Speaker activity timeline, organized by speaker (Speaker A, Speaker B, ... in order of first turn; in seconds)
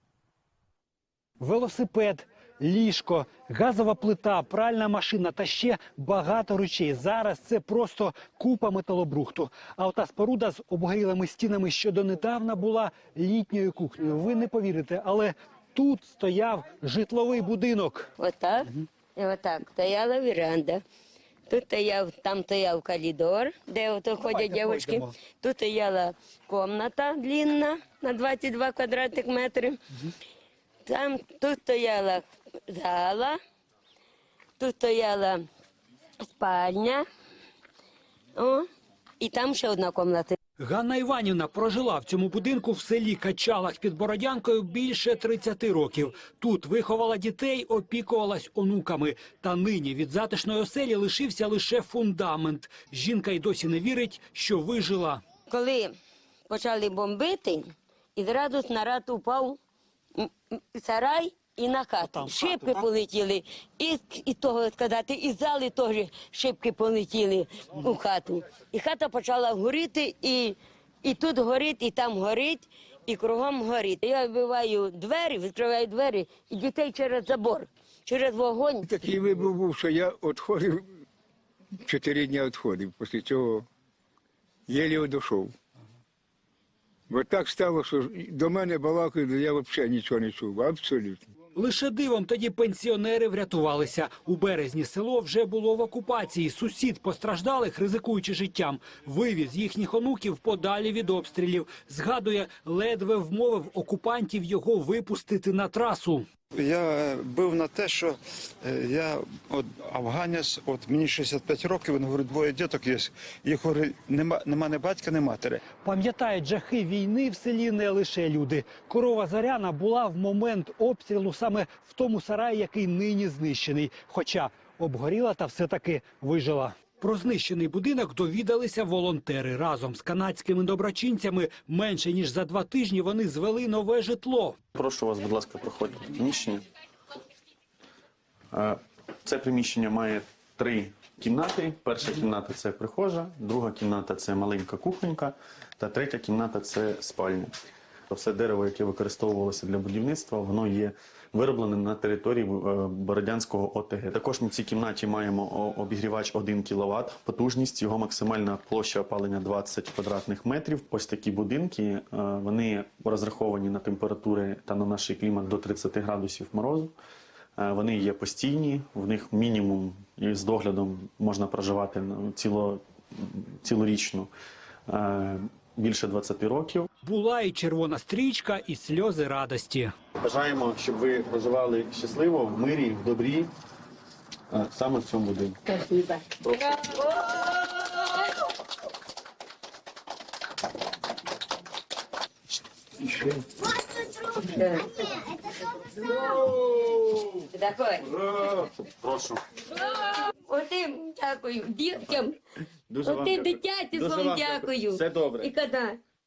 Speaker A: 1.4-18.1, 24.2-25.1, 40.6-55.2, 62.0-62.8, 91.5-106.2, 115.8-134.6, 177.0-179.9
Speaker B: 18.2-20.8, 21.5-29.8, 30.8-33.4, 34.6-35.4, 36.3-37.0, 38.3-38.6, 39.2-40.4, 55.5-55.9, 56.5-59.6, 60.1-78.9, 186.8-188.2, 194.2-195.3, 195.9-196.4, 197.5-198.3, 199.7-202.4, 203.0-206.0
Speaker C: 78.8-80.9, 81.8-83.7, 84.7-85.5, 87.1-91.2
Speaker D: 106.6-115.5
Speaker E: 134.7-136.6, 138.5-147.5, 148.1-166.9, 167.6-174.3, 174.9-176.9, 180.2-183.5, 184.5-185.6, 186.4-187.0, 198.8-199.4, 202.9-205.5